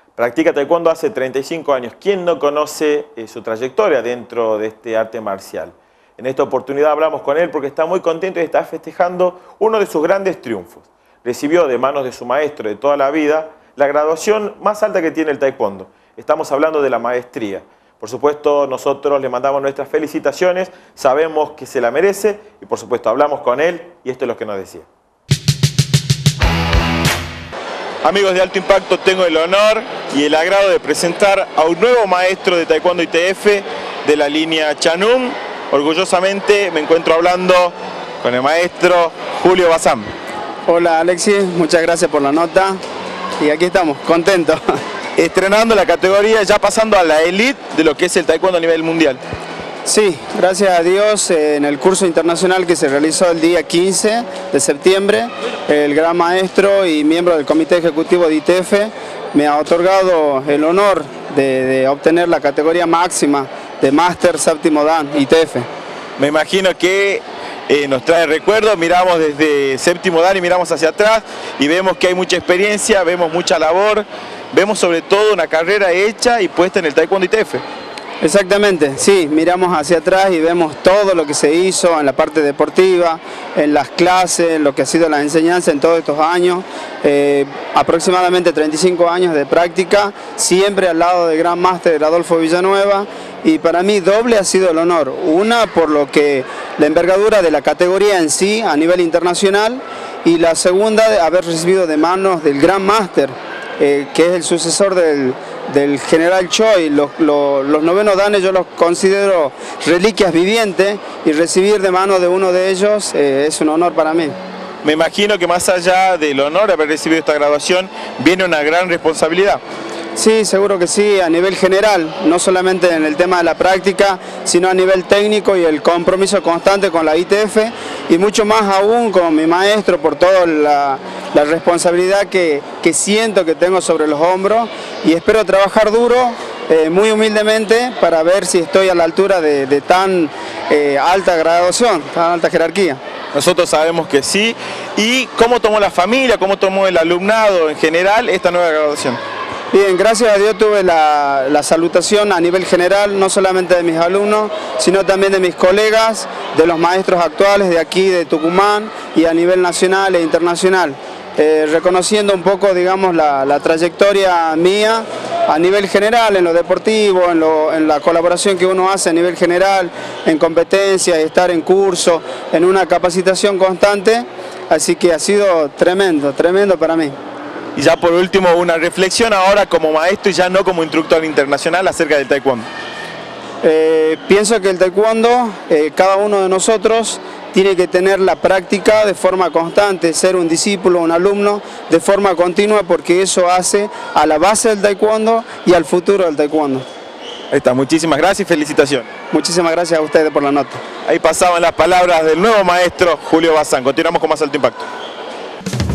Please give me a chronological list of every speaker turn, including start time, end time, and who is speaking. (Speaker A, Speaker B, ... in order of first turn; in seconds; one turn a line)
Speaker A: 0.2-24.9
Speaker A: 28.0-40.1
Speaker B: 40.7-42.8
Speaker B: 43.4-44.8
Speaker A: 45.2-49.2
Speaker B: 49.9-65.7
Speaker A: 66.2-77.6
Speaker B: 78.2-114.4
Speaker A: 114.8-119.6
Speaker B: 120.1-143.0
Speaker A: 143.3-149.2
Speaker B: 149.7-177.2
Speaker A: 177.8-182.7
Speaker B: 183.6-196.8
Speaker A: 197.5-199.1
Speaker B: 199.3-200.8
Speaker A: 201.0-204.9